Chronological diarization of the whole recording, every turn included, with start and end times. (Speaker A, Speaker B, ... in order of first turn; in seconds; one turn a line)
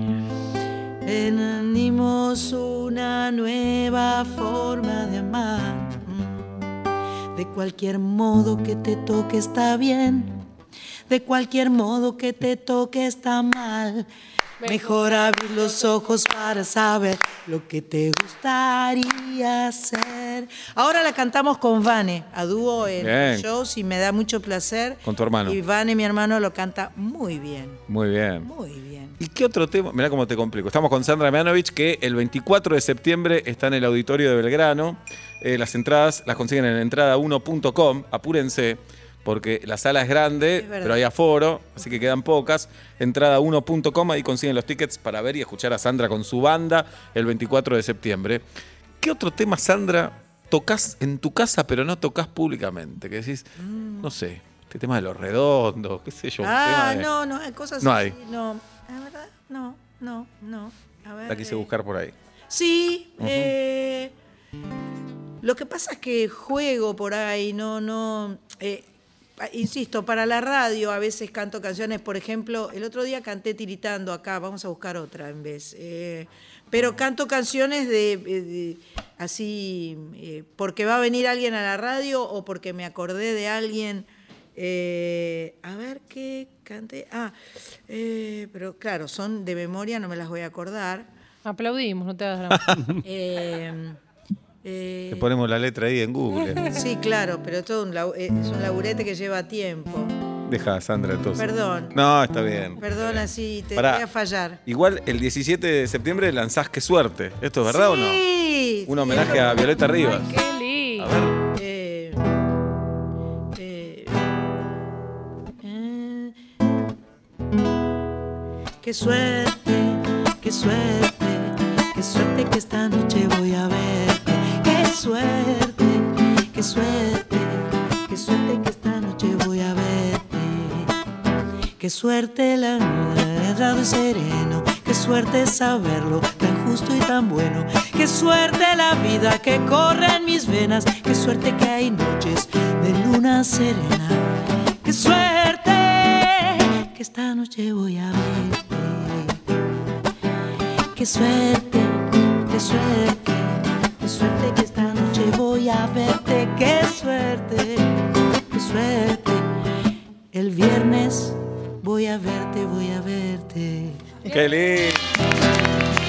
Speaker A: 1.0-6.5
Speaker A: 7.3-10.4
Speaker A: 11.1-14.1
Speaker B: 14.6-15.0
Speaker A: 14.6-27.8
Speaker C: 23.0-23.4
Speaker C: 25.0-25.6
Speaker C: 27.9-28.5
Speaker A: 28.4-29.2
Speaker C: 29.2-48.4
Speaker A: 40.5-41.0
Speaker C: 49.0-57.1
Speaker A: 53.6-54.1
Speaker A: 56.4-61.7
Speaker C: 57.8-58.1
Speaker C: 61.3-62.1
Speaker A: 62.5-64.1
Speaker C: 63.2-63.5
Speaker A: 65.4-68.8
Speaker A: 69.4-87.3
Speaker A: 87.9-91.1
Speaker B: 91.4-93.0
Speaker C: 92.5-92.9
Speaker A: 93.0-94.0
Speaker A: 94.6-95.3
Speaker C: 95.1-96.8
Speaker A: 96.7-100.2
Speaker C: 100.5-103.2
Speaker A: 101.4-101.9
Speaker A: 102.8-104.6
Speaker C: 103.8-104.0
Speaker C: 104.7-108.2
Speaker A: 107.6-109.9
Speaker C: 108.8-110.3
Speaker B: 109.9-111.1
Speaker C: 111.0-111.3
Speaker A: 111.5-112.2
Speaker A: 113.5-114.2
Speaker A: 115.6-116.4
Speaker A: 118.8-130.9
Speaker A: 131.8-144.3
Speaker A: 144.8-149.4
Speaker A: 150.9-159.5
Speaker A: 160.3-164.2
Speaker C: 164.2-165.0